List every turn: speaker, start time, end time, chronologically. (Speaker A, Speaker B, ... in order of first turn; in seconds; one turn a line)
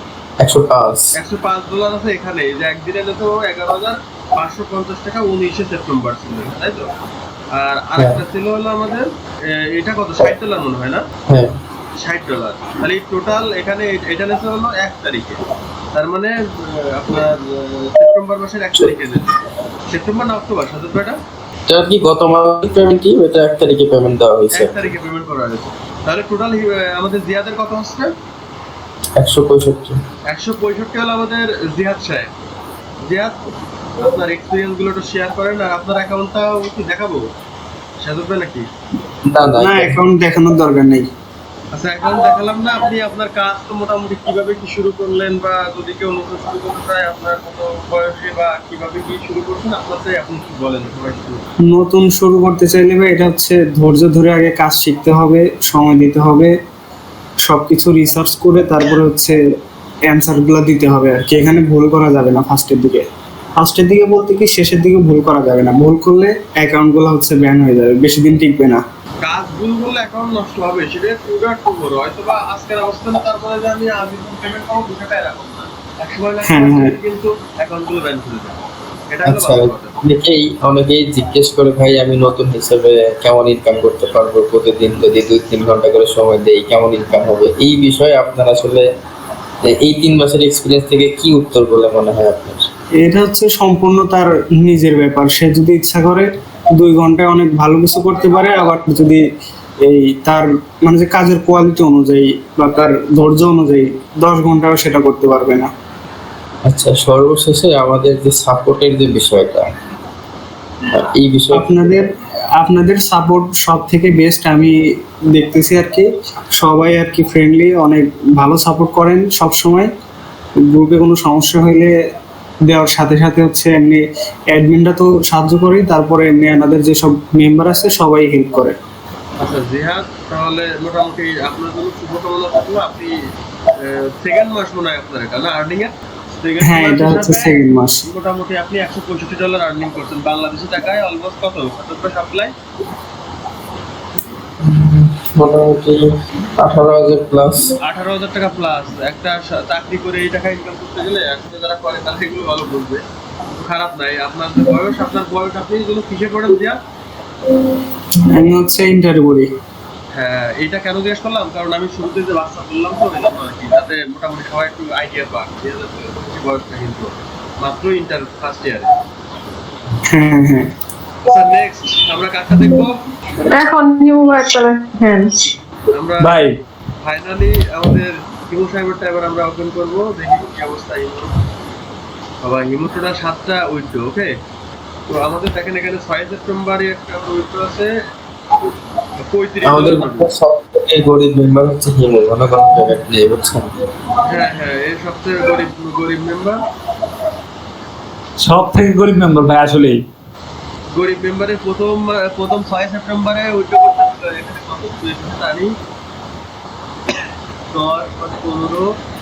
Speaker A: 0.4-1.1
Speaker B: 1.1-6.9
Speaker B: 7.5-11.1
Speaker A: 11.3-11.5
Speaker B: 12.0-15.4
Speaker B: 15.9-19.3
Speaker B: 19.9-21.2
Speaker A: 21.7-24.8
Speaker B: 24.5-28.1
Speaker A: 29.1-30.0
Speaker B: 30.3-32.3
Speaker B: 33.0-33.3
Speaker B: 34.0-37.2
Speaker B: 38.0-38.6
Speaker A: 39.3-40.0
Speaker C: 39.6-41.1
Speaker B: 41.7-51.5
Speaker C: 51.7-56.5
Speaker C: 57.4-59.4
Speaker C: 60.1-63.0
Speaker C: 63.6-68.8
Speaker B: 69.2-80.0
Speaker C: 76.5-76.9
Speaker A: 79.2-88.9
Speaker A: 89.6-92.7
Speaker C: 93.0-99.2
Speaker C: 99.8-105.7
Speaker A: 106.7-109.7
Speaker A: 110.9-111.8
Speaker C: 111.5-112.1
Speaker C: 112.6-114.8
Speaker C: 115.3-119.9
Speaker C: 120.7-121.9
Speaker C: 122.6-124.0
Speaker C: 124.5-128.8
Speaker B: 129.4-133.1
Speaker B: 133.8-142.5
Speaker C: 136.6-138.0
Speaker A: 144.6-147.7
Speaker B: 147.8-153.0
Speaker B: 153.6-156.8
Speaker C: 158.2-159.5
Speaker B: 160.1-168.9
Speaker C: 170.1-170.7
Speaker B: 171.2-173.0
Speaker D: 173.4-175.5
Speaker B: 175.9-176.4
Speaker E: 176.2-176.5
Speaker B: 177.0-181.4
Speaker B: 182.4-184.3
Speaker B: 185.1-187.9
Speaker B: 189.2-190.3
Speaker A: 189.6-193.8
Speaker B: 194.2-196.6
Speaker E: 198.4-200.0
Speaker B: 200.9-205.7
Speaker B: 207.7-208.9